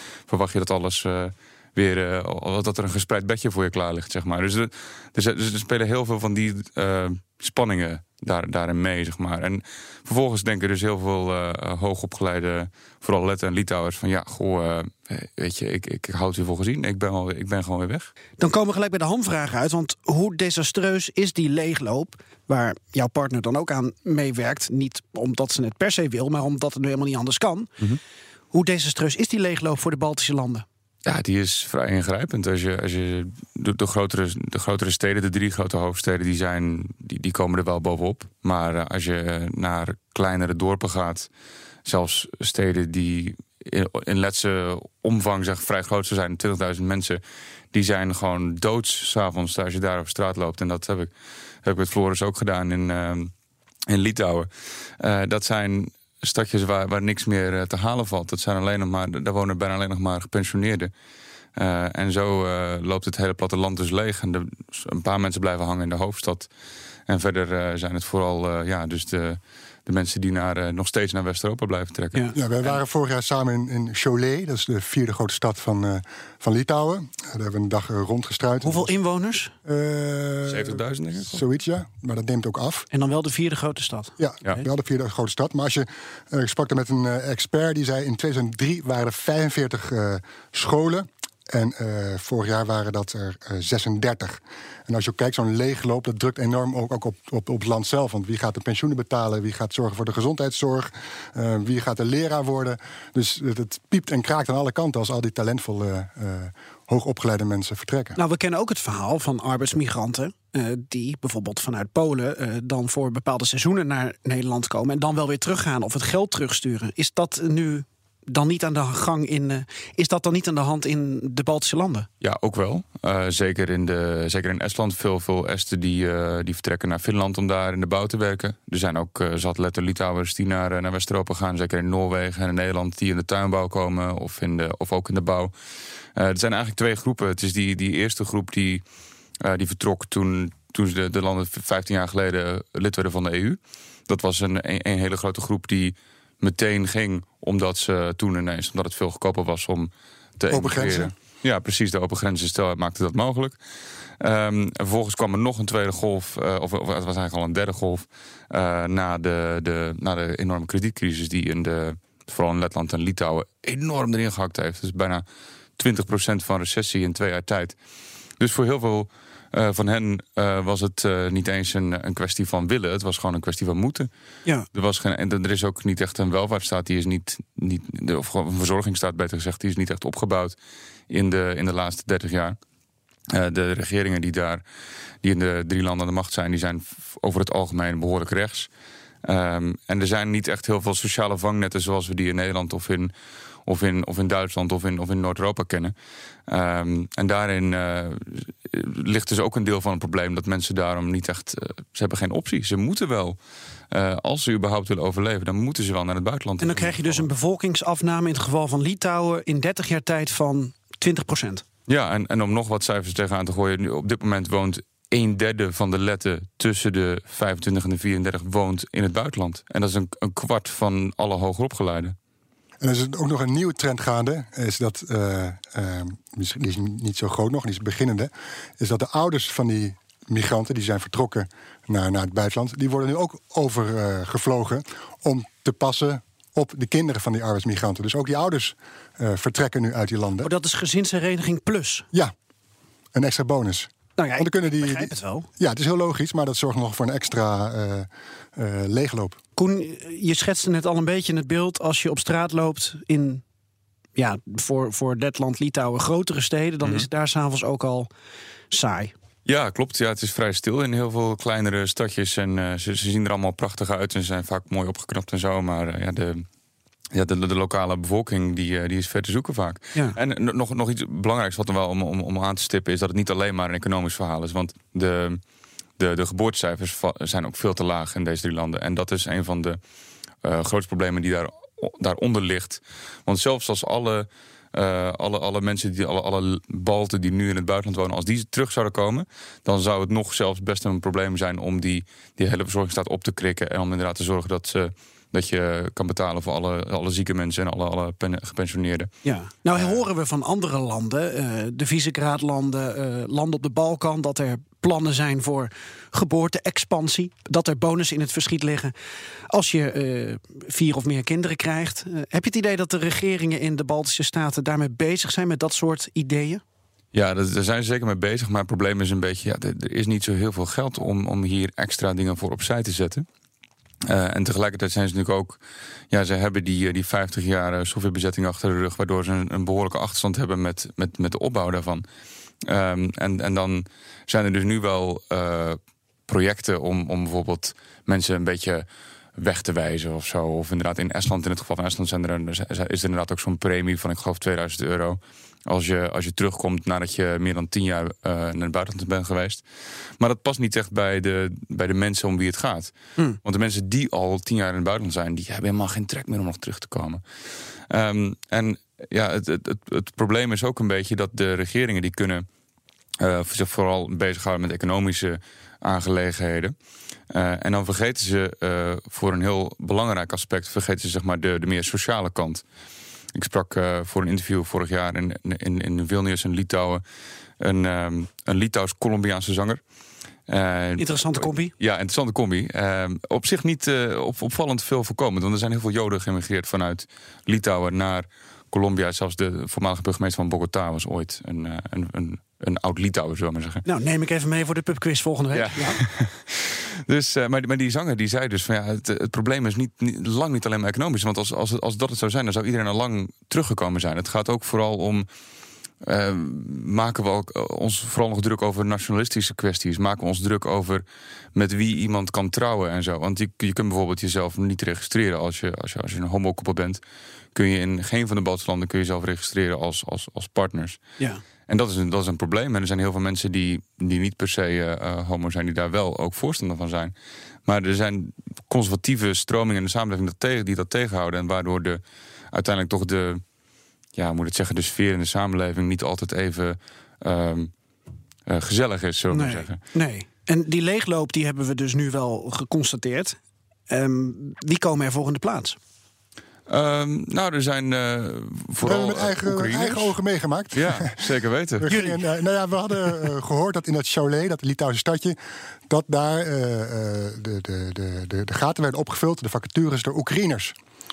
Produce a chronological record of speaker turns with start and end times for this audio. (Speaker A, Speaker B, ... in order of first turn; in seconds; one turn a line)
Speaker A: 0.3-18.1
Speaker B: 18.4-27.7
Speaker B: 28.5-30.6
Speaker A: 31.1-41.3
Speaker A: 41.8-47.2
Speaker A: 47.7-51.1
Speaker A: 51.6-53.3
Speaker A: 53.9-60.9
Speaker A: 61.5-66.5
Speaker A: 67.1-72.8
Speaker C: 72.3-78.9
Speaker B: 78.6-79.5
Speaker C: 79.6-82.8
Speaker A: 80.5-81.4
Speaker B: 82.9-84.1
Speaker C: 84.2-108.2
Speaker B: 108.2-122.1
Speaker A: 122.2-135.5
Speaker A: 136.2-138.8
Speaker A: 139.4-153.6
Speaker C: 150.5-151.1
Speaker A: 154.2-165.2
Speaker A: 165.8-167.7
Speaker A: 168.4-174.1
Speaker A: 174.7-180.6
Speaker A: 181.1-182.6
Speaker A: 183.3-184.6
Speaker A: 185.2-188.7
Speaker A: 189.2-193.1
Speaker A: 193.7-195.9
Speaker A: 196.5-203.4
Speaker A: 203.9-207.2
Speaker B: 206.6-211.6
Speaker A: 211.9-222.2
Speaker C: 222.8-240.5
Speaker B: 240.4-242.1
Speaker C: 243.1-249.4
Speaker B: 244.2-245.5
Speaker B: 249.6-253.4
Speaker B: 254.2-258.1
Speaker B: 258.7-259.1
Speaker A: 259.4-266.4
Speaker A: 267.1-275.4
Speaker A: 276.0-279.8
Speaker A: 280.4-299.1
Speaker B: 299.2-308.9
Speaker B: 309.5-316.6
Speaker A: 317.1-323.2
Speaker A: 324.0-325.6
Speaker A: 326.1-332.0
Speaker A: 332.6-338.8
Speaker A: 339.4-349.6
Speaker A: 350.2-357.2
Speaker A: 357.9-362.4
Speaker A: 363.2-366.7
Speaker A: 367.3-372.6
Speaker A: 373.3-377.0
Speaker A: 377.6-379.8
Speaker A: 380.5-393.8
Speaker B: 381.0-381.7
Speaker B: 393.9-396.0
Speaker A: 395.5-405.2
Speaker A: 406.0-417.0
Speaker A: 417.5-421.0
Speaker A: 421.7-427.1
Speaker A: 427.6-432.0
Speaker A: 432.5-433.4
Speaker A: 434.1-437.7
Speaker A: 438.5-439.8
Speaker B: 439.3-443.4
Speaker B: 443.9-445.8
Speaker A: 446.7-450.1
Speaker C: 448.8-455.4
Speaker A: 450.7-451.9
Speaker B: 451.9-452.2
Speaker C: 455.9-460.8